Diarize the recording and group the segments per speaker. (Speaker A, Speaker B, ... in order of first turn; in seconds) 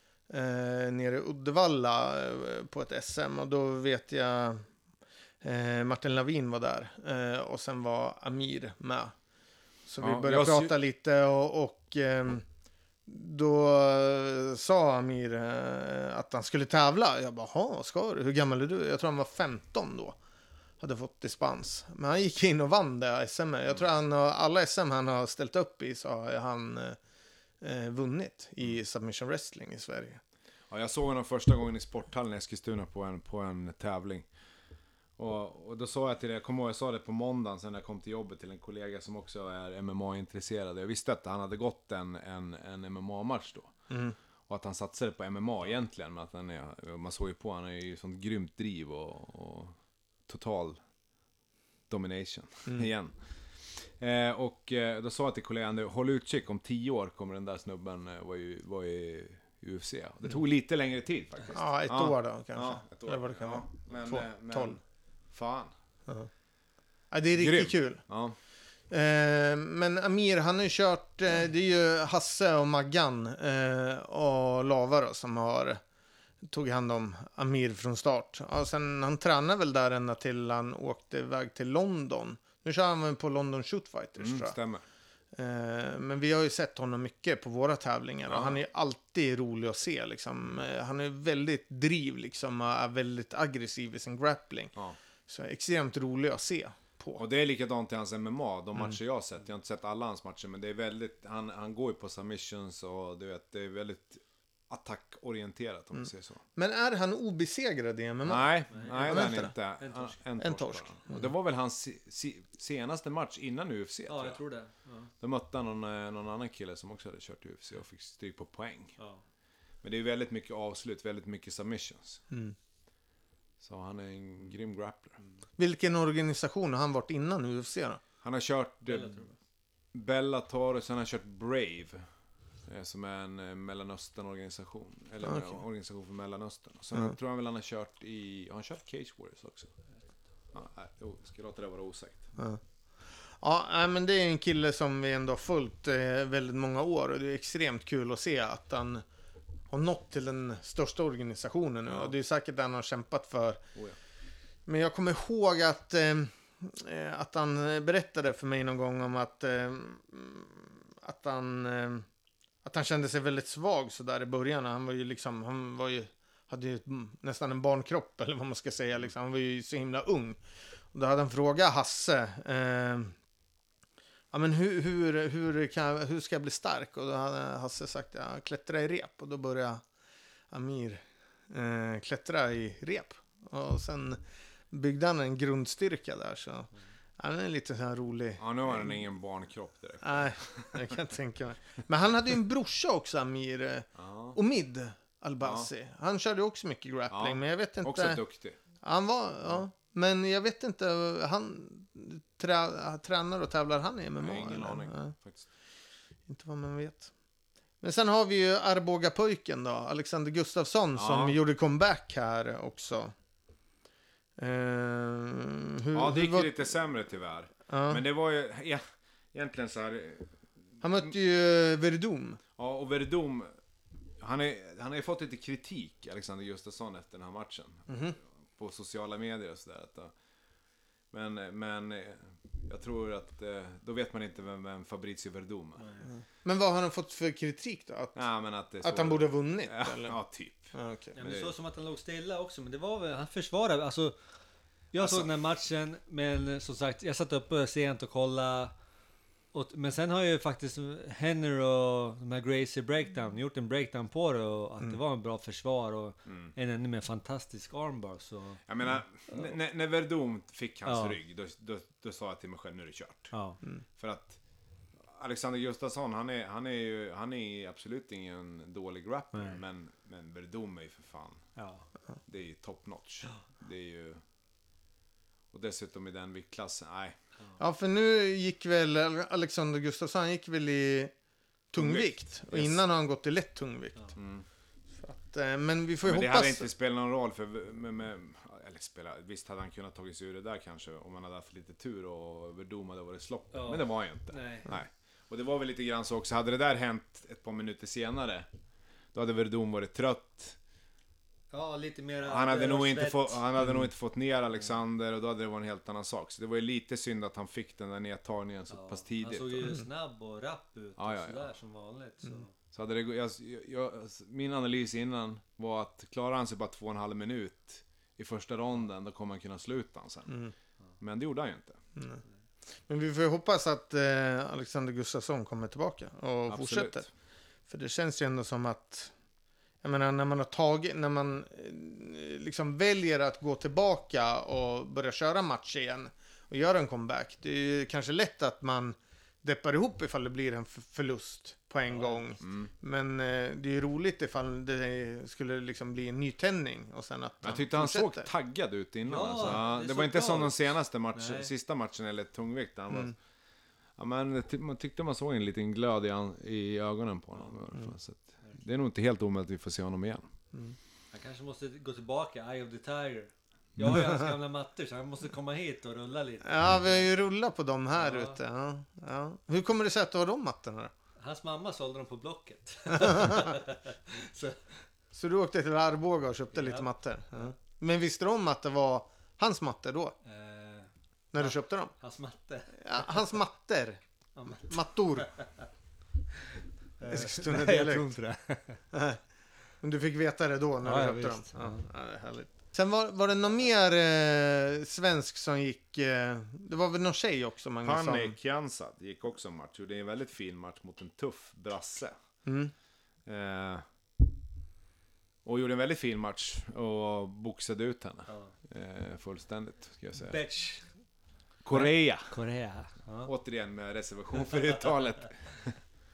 Speaker A: 0.3-4.7, 5.4-9.2, 9.9-12.4, 13.1-20.2, 20.8-27.0, 27.6-30.2, 43.9-44.2, 61.5-64.8, 67.1-68.0, 68.9-75.8, 76.5-84.6, 85.3-94.8, 95.3-97.2, 106.0-109.5, 110.4-111.3, 122.3-122.5, 125.6-128.0, 135.2-135.6, 143.3-149.0, 149.7-153.6, 154.7-162.1, 162.6-170.4, 170.9-173.2, 174.3-179.8, 180.5-189.0, 190.0-198.2, 198.8-205.1, 206.3-207.1, 207.8-213.1, 214.4-216.5, 217.7-218.0, 220.8-222.4, 227.9-228.2, 236.0-238.3, 238.8-240.2, 240.7-241.2, 277.6-281.1, 281.7-284.2, 285.0-286.7, 320.3-320.5, 322.0-322.2, 322.9-327.1, 327.7-329.1, 329.8-348.3, 363.9-364.3, 366.4-370.9, 372.9-373.6, 375.1-380.1, 381.3-381.9, 382.7-385.3, 387.1-388.1, 388.9-389.2, 389.8-398.4, 402.4-402.7
Speaker B: 10.0-10.7, 30.7-34.3, 35.2-43.8, 44.5-50.8, 51.9-64.8, 65.3-65.7, 67.4-68.4, 84.2-84.8, 88.3-88.6, 97.2-106.4, 108.2-114.4, 115.2-119.0, 119.8-122.2, 123.6-125.2, 128.2-129.3, 129.9-132.1, 132.7-139.7, 140.5-142.3, 188.4-190.8, 194.0-194.4, 195.4-195.7, 197.1-198.6, 204.2-205.5, 210.9-211.4, 215.9-220.4, 222.6-223.5, 224.2-227.9, 228.6-230.1, 231.1-235.9, 238.2-241.5, 245.0-245.3, 258.7-263.3, 264.0-264.4, 265.0-271.5, 272.3-274.2, 275.5-277.2, 281.8-282.8, 284.2-284.5, 286.0-298.5, 299.1-300.6, 302.2-309.8, 311.0-311.5, 312.7-320.3, 321.0-321.8, 326.5-327.1, 342.4-342.7, 347.4-353.1, 354.0-360.2, 397.8-402.1, 403.3-403.9, 405.4-410.4, 411.6-412.4, 413.2-415.8
Speaker C: 108.7-110.2, 114.1-115.1, 119.0-119.2, 128.9-129.3, 235.8-236.1, 241.2-244.2, 244.9-248.7, 249.5-258.6, 260.9-261.2, 263.3-263.6, 269.3-269.6, 271.6-271.9, 293.5-294.7, 301.5-303.4, 308.7-312.5, 341.9-342.3, 349.1-351.5, 361.1-367.1, 368.0-368.4, 371.2-374.9, 376.5-376.9, 380.2-383.3, 384.4-385.6, 387.0-388.8, 390.8-391.8, 408.3-408.5, 410.2-411.0, 411.7-413.3